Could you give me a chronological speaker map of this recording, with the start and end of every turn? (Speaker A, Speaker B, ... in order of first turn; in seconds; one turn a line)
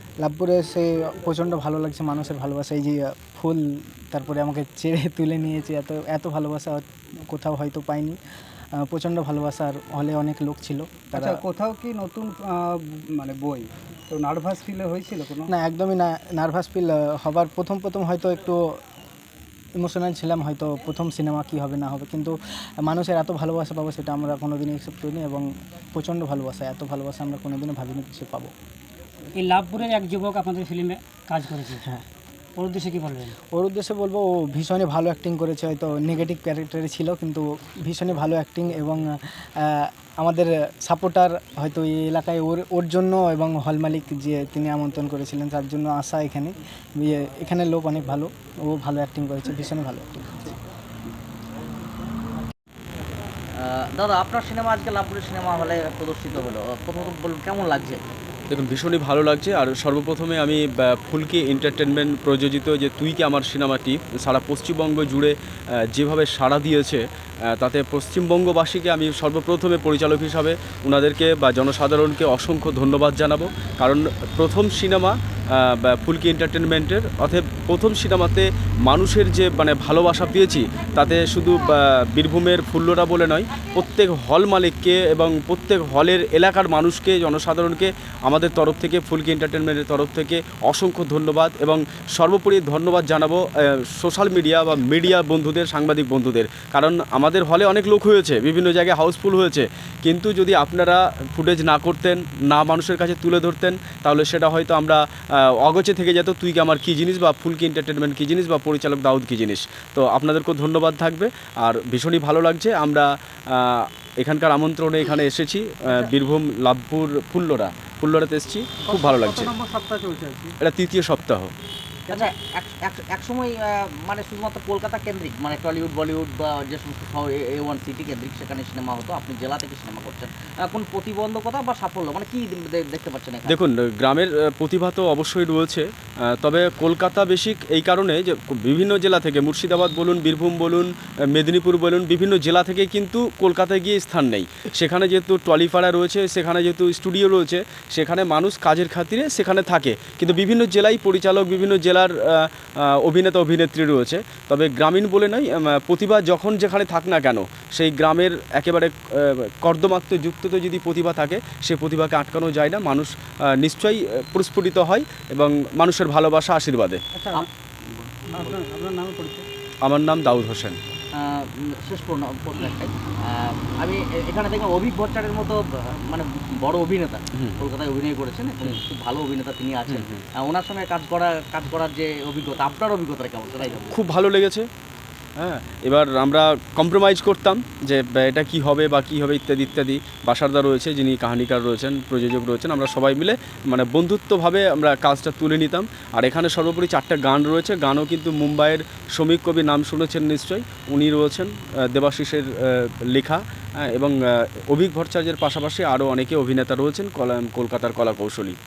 Speaker A: 0.2-8.2
Speaker A: 8.9-11.4
Speaker B: 11.2-15.5
Speaker A: 15.5-18.6
Speaker A: 19.8-28.5
Speaker C: 29.4-31.8
Speaker C: 32.6-33.3
Speaker A: 33.5-39.1
Speaker A: 39.6-50.6
Speaker D: 53.5-58.0
Speaker E: 58.5-65.3
Speaker E: 65.9-93.4
Speaker E: 93.9-105.0
Speaker E: 105.6-119.5
Speaker B: 118.8-120.5
Speaker E: 120.6-121.5
Speaker D: 122.1-133.6
Speaker E: 133.5-135.8
Speaker E: 136.4-167.0
Speaker B: 167.1-167.5
Speaker B: 168.1-169.5
Speaker E: 169.8-170.8
Speaker D: 171.1-184.1
Speaker E: 179.9-180.2
Speaker E: 183.9-184.7
Speaker E: 185.4-204.1
Speaker E: 204.7-208.6